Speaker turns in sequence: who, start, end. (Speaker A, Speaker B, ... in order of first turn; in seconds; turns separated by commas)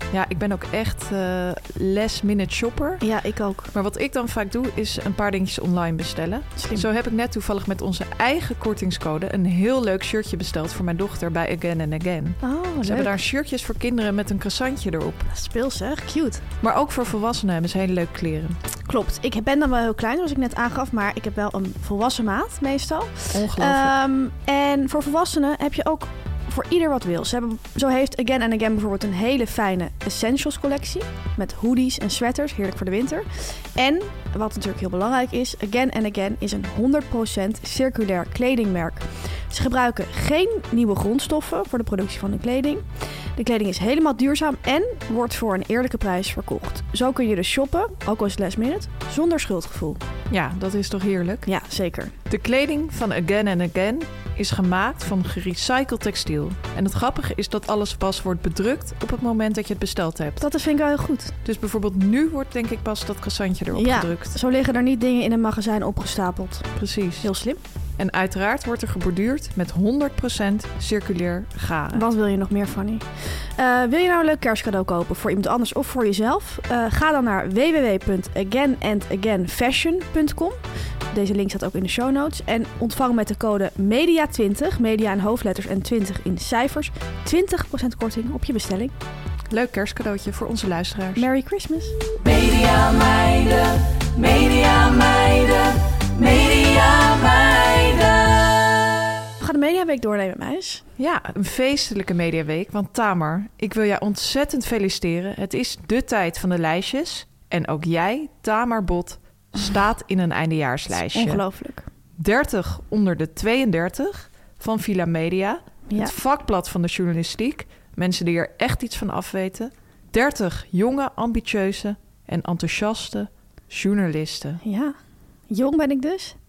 Speaker A: 0.1-3.0, Speaker B: 3.0-3.7, Speaker A: 3.7-15.3, Speaker B: 6.6-6.9, Speaker B: 12.4-13.2, Speaker B: 15.3-16.4, Speaker A: 16.6-18.6, Speaker B: 18.9-50.0, Speaker A: 23.3-23.9, Speaker A: 50.3-51.5, Speaker B: 51.5-52.1, Speaker A: 52.3-60.5, Speaker B: 60.4-61.3, Speaker A: 61.4-64.4, Speaker B: 63.7-67.6, Speaker A: 66.8-67.3, Speaker A: 68.0-72.0, Speaker B: 71.9-88.9, Speaker A: 89.5-91.2, Speaker B: 91.2-92.0, Speaker C: 92.2-98.8, Speaker B: 99.4-100.8, Speaker A: 101.0-111.4, Speaker B: 111.0-111.9, Speaker A: 112.2-124.6, Speaker B: 115.9-116.1, Speaker B: 124.6-124.9, Speaker B: 125.5-126.3